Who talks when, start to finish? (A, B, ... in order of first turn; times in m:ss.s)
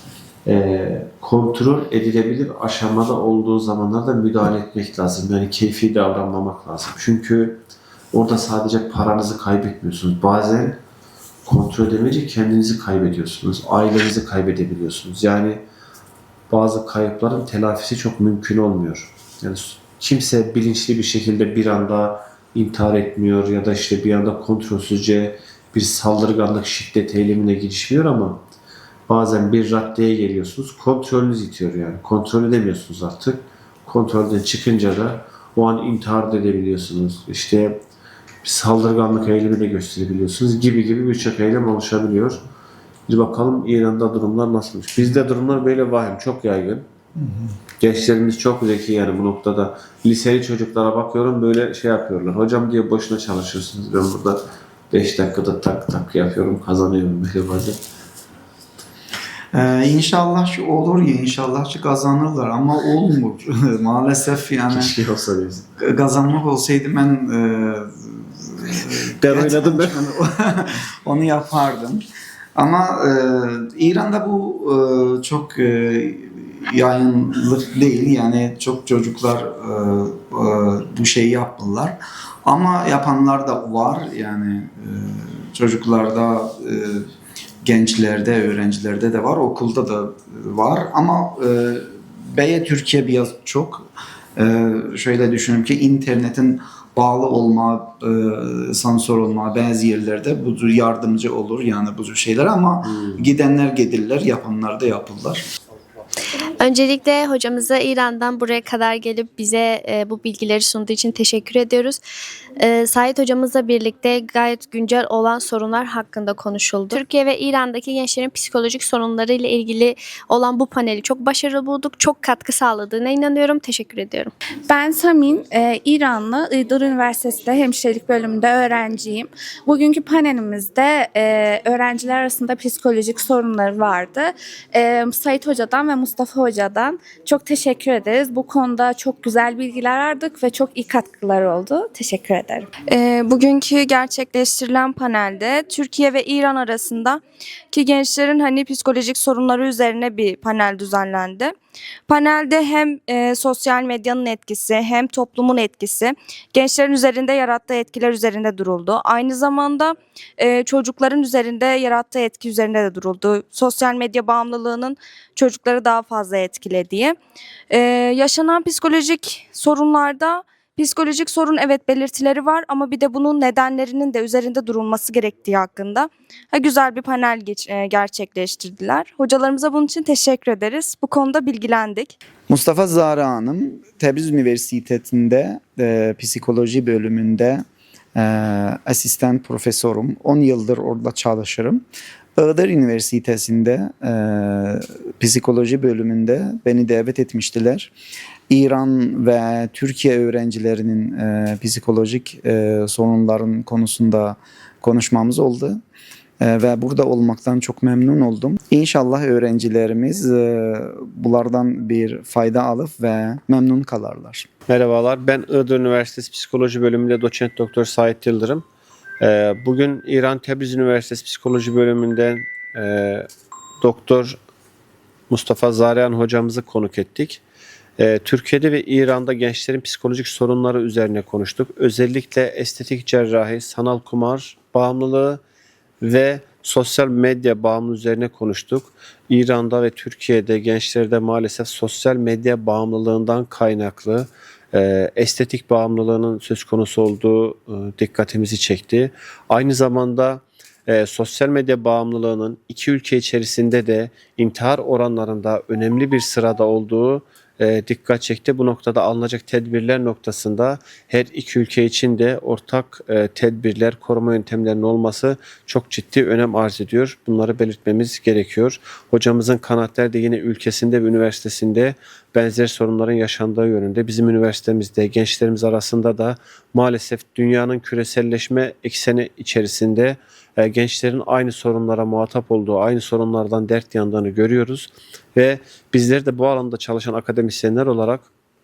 0:00.4-0:07.6 A
0:08.1-0:10.8 A
0:11.4-0:15.6 A
0:16.5-0:28.4 A
0:29.1-0:37.8 A
0:38.4-0:42.4 A
0:43.1-0:46.8 A
0:47.8-0:57.8 A
0:59.5-1:04.9 B
1:04.7-1:05.6 A
1:05.8-1:12.0 B
1:09.2-1:10.1 A
1:12.5-1:27.1 B
1:27.6-1:45.4 B
1:42.9-1:43.2 A
1:46.6-1:52.0 C
1:52.6-2:04.3 C
2:04.6-2:22.7 D
2:22.9-2:27.2 E
2:27.7-2:31.5 E
2:32.1-2:47.2 E
2:47.7-3:02.1 E
3:02.5-3:07.6 B
3:08.1-3:11.8 B
3:12.4-3:17.9 B
3:18.5-3:25.8 B
3:26.4-3:34.5 B
3:34.7-3:38.6 A
3:39.2-3:43.2 A
3:43.8-3:44.4 A
3:45.3-3:47.4 A
3:48.0-3:55.4 A
3:56.0-4:48.3 A